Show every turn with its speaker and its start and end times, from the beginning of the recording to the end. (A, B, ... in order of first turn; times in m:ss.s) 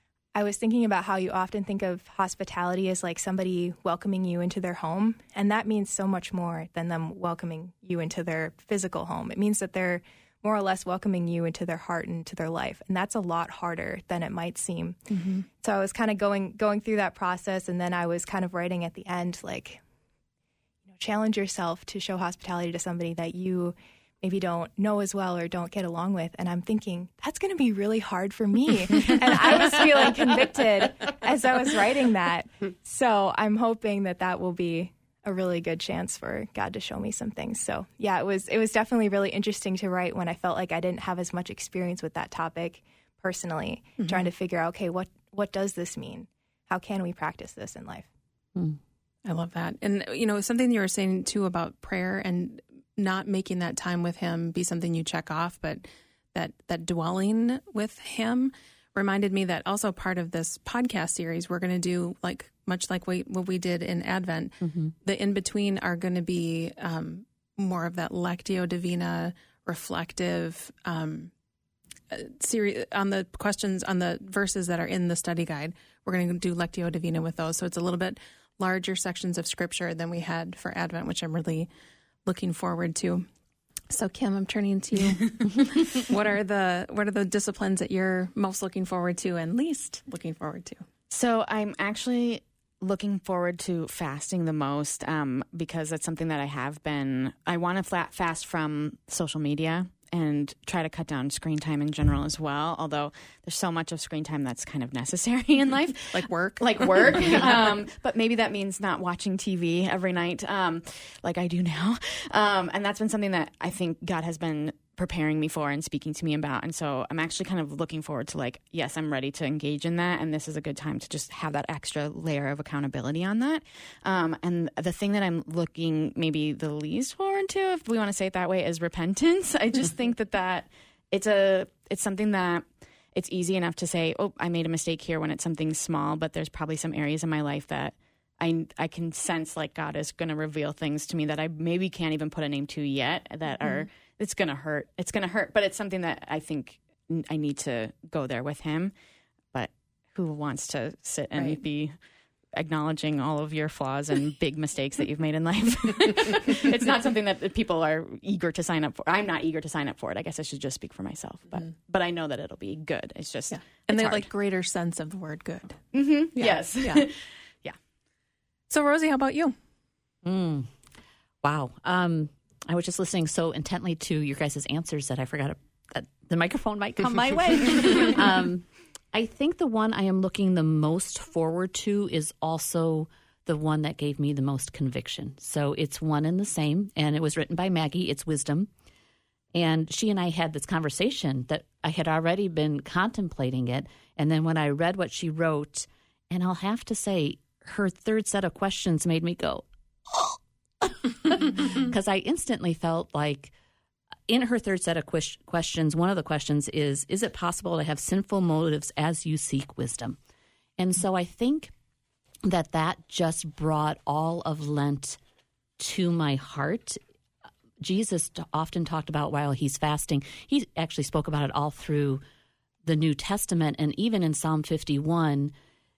0:00.3-0:15.0 A
0:15.1-0:15.4 B
0:15.6-0:19.8 A
0:20.9-0:48.1 A
0:44.0-0:44.3 B
0:49.2-1:11.3 B
1:04.6-1:04.9 C
1:12.1-1:21.7 B
1:22.2-1:23.3 B
1:23.9-1:30.8 B
1:31.1-2:28.9 D
1:46.1-1:46.9 B
2:29.5-2:32.0 D
2:32.5-2:44.3 D
2:43.5-2:45.8 B
2:45.9-2:47.7 D
2:46.3-2:47.0 B
2:48.7-2:49.6 B
2:50.2-2:50.7 C
2:51.4-3:08.7 C
3:09.5-3:23.5 C
3:24.3-3:30.2 C
3:30.8-3:31.7 C
3:32.4-3:35.2 C
3:35.8-3:37.0 C
3:37.8-3:42.2 C
3:42.8-3:45.5 C